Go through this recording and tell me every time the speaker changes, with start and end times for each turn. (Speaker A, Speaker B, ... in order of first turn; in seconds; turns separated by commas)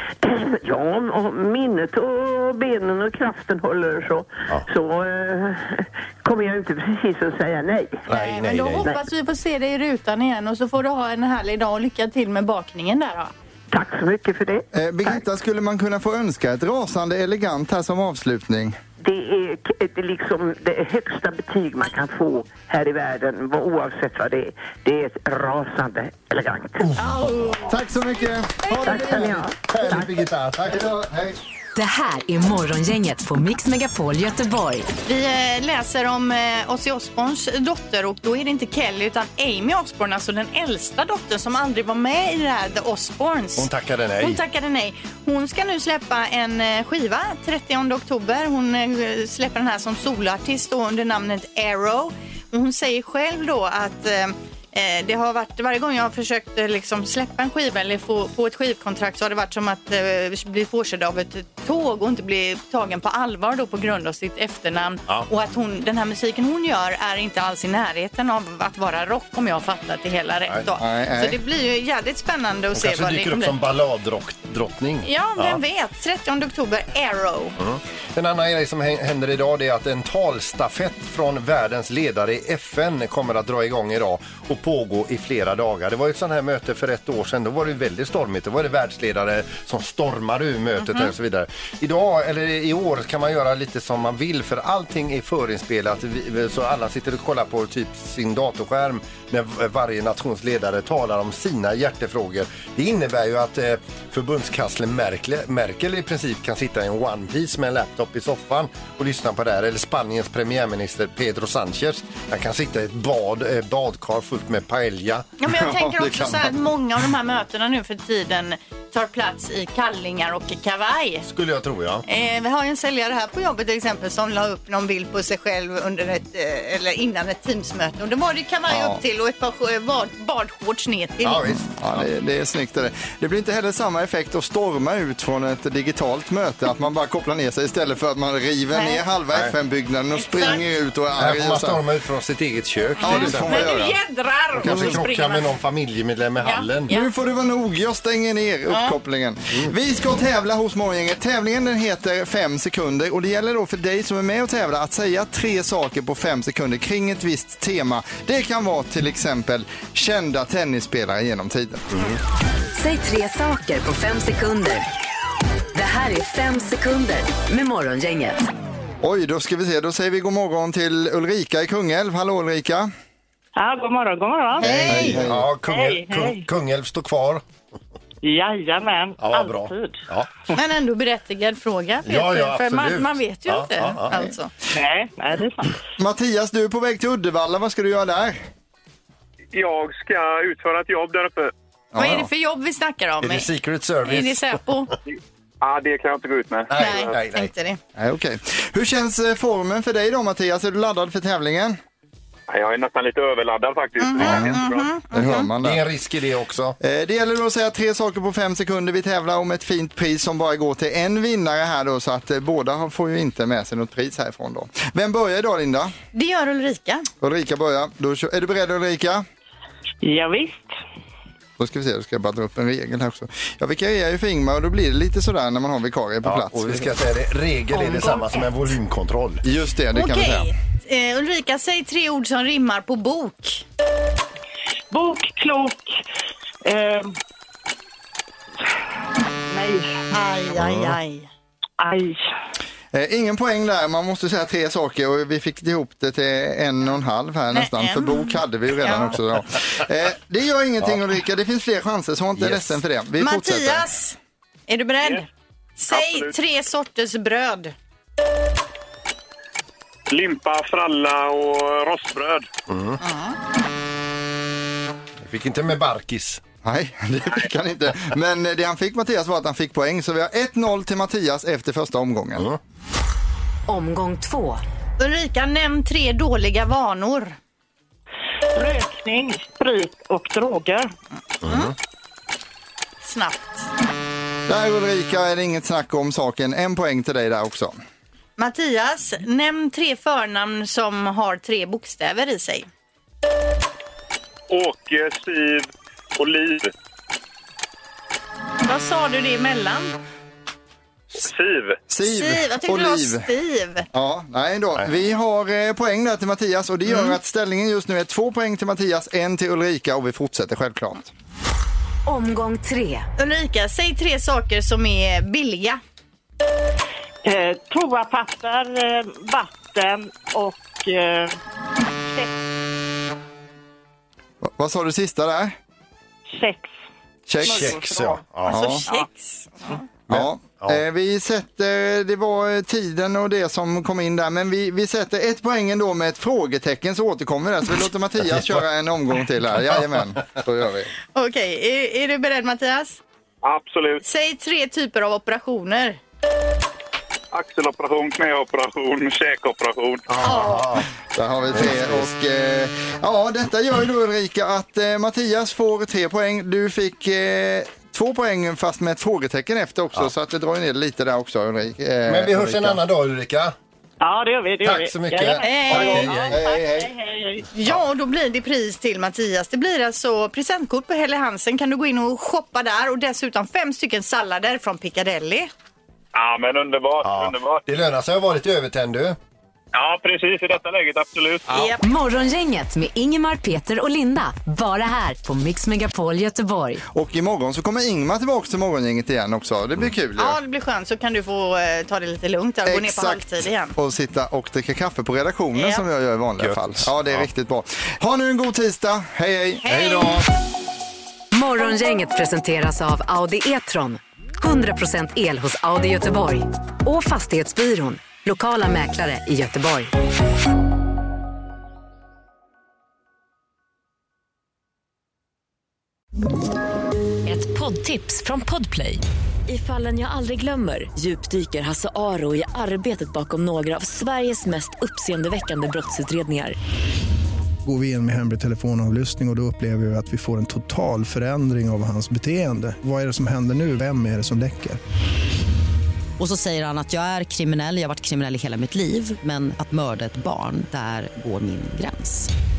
Speaker A: 0.2-8.0, Speaker B: 8.1-8.9, Speaker C: 8.1-13.3, Speaker A: 13.7-14.7, Speaker D: 14.7-18.8, Speaker A: 19.0-26.8, Speaker B: 26.8-27.7, Speaker C: 27.0-27.7, Speaker D: 27.7-30.0, Speaker C: 28.7-29.1, Speaker B: 28.8-30.9, Speaker A: 28.8-30.0, Speaker D: 30.7-31.4, Speaker E: 31.7-34.9, Speaker C: 35.0-73.6, Speaker B: 43.6-44.4, Speaker D: 70.8-71.4, Speaker B: 72.7-75.6, Speaker C: 75.0-77.5, Speaker B: 77.6-115.3, Speaker C: 90.8-91.1, Speaker C: 115.4-121.2, Speaker D: 115.5-116.6, Speaker B: 121.2-122.0, Speaker C: 122.0-131.4, Speaker D: 128.7-129.0, Speaker B: 131.2-132.1, Speaker D: 131.4-141.8, Speaker C: 138.7-139.0, Speaker C: 140.1-140.6, Speaker B: 141.2-143.7, Speaker C: 143.0-145.5, Speaker D: 143.0-143.9, Speaker D: 144.6-145.0, Speaker B: 144.6-146.9, Speaker C: 146.4-147.1, Speaker D: 146.9-161.8, Speaker C: 148.7-148.9, Speaker B: 161.9-162.2, Speaker E: 162.8-164.8, Speaker E: 165.7-168.4, Speaker D: 169.0-172.9, Speaker F: 173.6-176.4, Speaker C: 174.6-175.2, Speaker B: 174.6-177.4, Speaker D: 174.6-175.5, Speaker F: 178.2-180.0, Speaker B: 179.2-180.3, Speaker C: 180.5-184.5, Speaker B: 182.0-184.2, Speaker F: 184.7-185.7, Speaker D: 186.0-188.4, Speaker G: 189.5-191.5, Speaker D: 191.9-192.3, Speaker C: 192.0-193.5, Speaker B: 193.2-194.6, Speaker C: 194.0-194.9, Speaker G: 195.6-196.7, Speaker B: 196.7-197.5, Speaker C: 196.7-197.8, Speaker D: 198.0-201.8, Speaker G: 202.5-204.9, Speaker C: 204.0-205.5, Speaker D: 204.2-205.8, Speaker B: 204.2-204.5, Speaker B: 205.6-206.8, Speaker D: 206.8-215.9, Speaker C: 216.1-217.1, Speaker D: 217.2-219.2, Speaker F: 220.0-220.7, Speaker D: 221.6-226.9, Speaker B: 226.2-229.4, Speaker E: 227.7-228.5, Speaker D: 229.4-230.5, Speaker C: 229.9-233.6, Speaker F: 234.9-236.0, Speaker F: 236.6-237.1, Speaker F: 239.5-240.0, Speaker C: 240.1-241.3, Speaker B: 240.6-240.9, Speaker F: 241.8-242.3, Speaker D: 242.9-253.8, Speaker C: 247.5-249.2, Speaker B: 252.4-252.7, Speaker C: 253.2-254.2, Speaker C: 254.7-257.7, Speaker G: 255.9-256.3, Speaker G: 260.1-262.5, Speaker B: 262.7-263.0, Speaker C: 263.0-263.4, Speaker B: 265.2-266.4, Speaker D: 266.6-272.5, Speaker E: 273.7-274.6, Speaker C: 275.0-277.4, Speaker F: 278.5-280.9, Speaker B: 281.4-281.7, Speaker C: 281.4-281.7, Speaker C: 283.0-283.7, Speaker D: 284.5-287.7, Speaker C: 288.4-292.7, Speaker G: 294.5-296.7, Speaker C: 298.6-299.9, Speaker G: 301.3-301.7, Speaker D: 301.9-303.3, Speaker C: 302.0-303.9, Speaker D: 303.9-311.1, Speaker C: 306.9-307.1, Speaker E: 312.1-313.1, Speaker C: 313.2-315.8, Speaker F: 317.2-321.3, Speaker D: 324.4-325.6, Speaker F: 326.3-326.8, Speaker D: 327.3-328.8, Speaker B: 327.4-328.6, Speaker C: 327.4-327.7, Speaker C: 328.4-329.8, Speaker B: 330.1-330.8, Speaker D: 330.1-340.9, Speaker B: 338.2-338.6, Speaker C: 341.1-343.0, Speaker G: 343.4-344.0, Speaker C: 344.0-346.0, Speaker G: 347.3-350.0, Speaker B: 350.1-350.9, Speaker C: 350.2-350.8, Speaker D: 350.3-350.6, Speaker D: 351.1-362.8, Speaker B: 351.5-352.1, Speaker B: 362.1-363.5, Speaker F: 364.0-367.4, Speaker B: 364.6-366.4, Speaker C: 365.4-366.1, Speaker D: 366.3-366.9, Speaker C: 367.5-375.5, Speaker G: 376.1-377.6, Speaker B: 377.0-379.2, Speaker G: 379.8-381.4, Speaker B: 381.5-381.8, Speaker C: 381.5-381.8, Speaker E: 381.8-386.8, Speaker D: 386.9-390.4, Speaker C: 390.2-393.7, Speaker D: 392.6-393.2, Speaker D: 393.7-399.9, Speaker C: 395.5-395.8, Speaker B: 396.4-397.3, Speaker B: 399.6-400.2, Speaker C: 399.7-400.1, Speaker E: 401.3-409.9, Speaker H: 417.2-426.6, Speaker I: 427.6-434.8, Speaker J: 436.2-442.3